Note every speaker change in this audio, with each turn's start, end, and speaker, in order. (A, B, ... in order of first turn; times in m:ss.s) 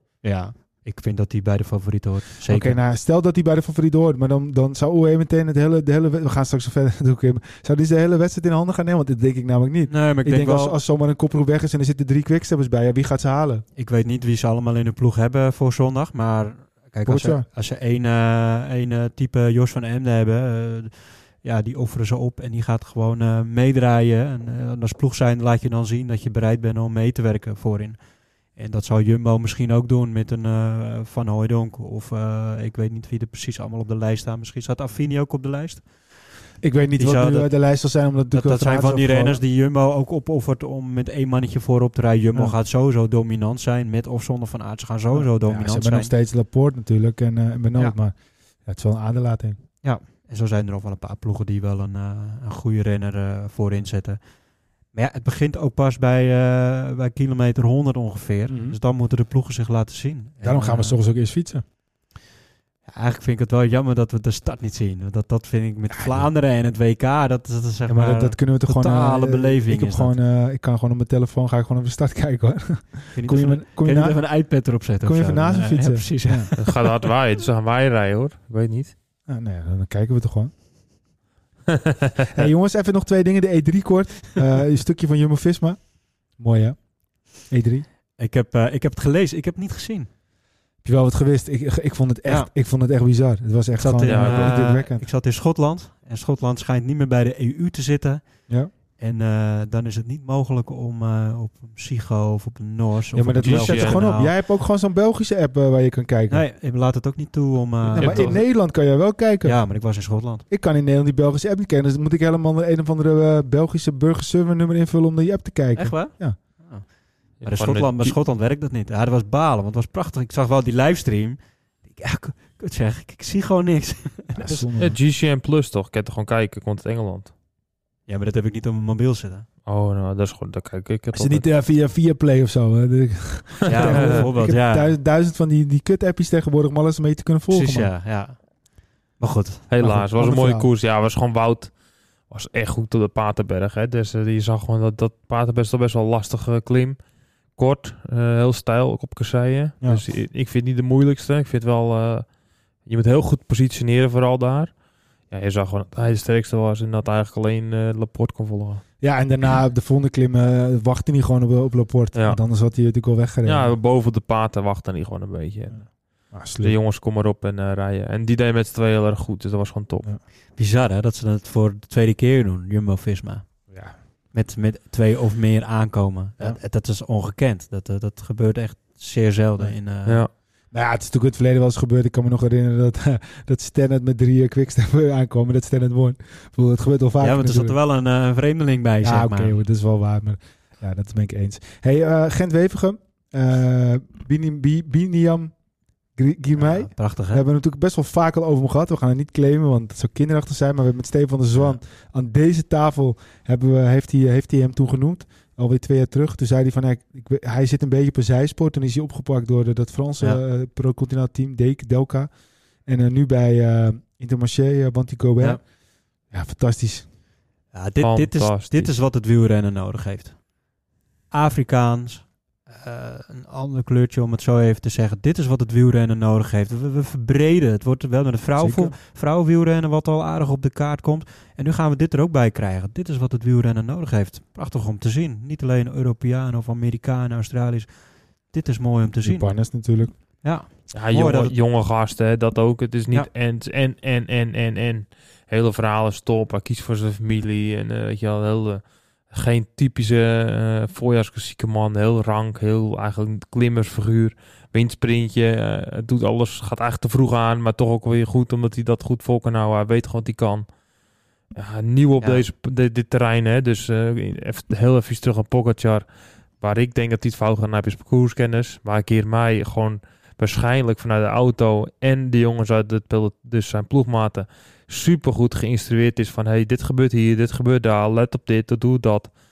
0:00.2-0:02.8 A
0:02.5-0:13.6 B
0:09.9-0:10.8 A
0:13.8-0:28.0 A
0:17.0-0:17.4 B
0:28.5-0:36.1 A
0:36.6-0:39.4 B
0:37.0-0:37.5 A
0:38.3-0:46.1 A
0:45.1-0:49.6 B
0:49.8-0:54.2 A
0:54.9-1:01.0 A
0:58.5-0:58.8 B
1:00.4-1:01.6 B
1:02.9-1:10.1 A
1:05.9-1:06.3 B
1:07.9-1:16.5 B
1:13.1-1:17.0 A
1:16.6-1:18.9 C
1:19.3-1:20.5 B
1:22.3-1:27.8 B
1:28.2-1:30.1 A
1:30.8-1:35.0 B
1:32.2-1:32.5 A
1:33.8-1:44.3 A
1:34.0-1:34.8 C
1:43.1-1:46.4 B
1:43.4-1:44.1 C
1:46.3-1:48.9 A
1:47.9-1:49.9 B
1:47.9-1:48.4 C
1:49.4-1:50.4 A
1:50.5-1:56.4 B
1:55.8-2:04.7 A
1:57.4-1:58.2 C
2:04.4-2:05.0 B
2:04.7-2:07.3 C
2:08.1-2:09.5 A
2:09.6-2:11.5 C
2:11.1-2:17.9 B
2:13.6-2:14.9 A
2:13.8-2:14.2 C
2:17.5-2:19.7 A
2:19.7-2:21.8 C
2:19.8-2:20.7 B
2:22.3-2:34.8 C
2:35.3-2:38.9 C
2:39.0-2:43.7 B
2:42.1-2:42.4 C
2:43.4-2:50.1 C
2:45.7-2:46.7 B
2:50.6-3:00.2 A
2:53.7-2:54.0 B
3:00.0-3:00.3 C
3:00.3-3:07.8 B
3:07.2-3:09.6 A
3:09.0-3:15.5 B
3:16.1-3:35.7 B
3:16.6-3:17.4 A
3:36.2-3:37.1 B
3:37.7-3:40.5 A
3:38.0-3:39.0 C
3:41.3-4:01.5 A
3:48.6-3:48.9 B
3:59.2-4:00.1 B
4:00.9-4:20.7 C
4:21.5-4:26.1 C
4:26.6-4:39.3 C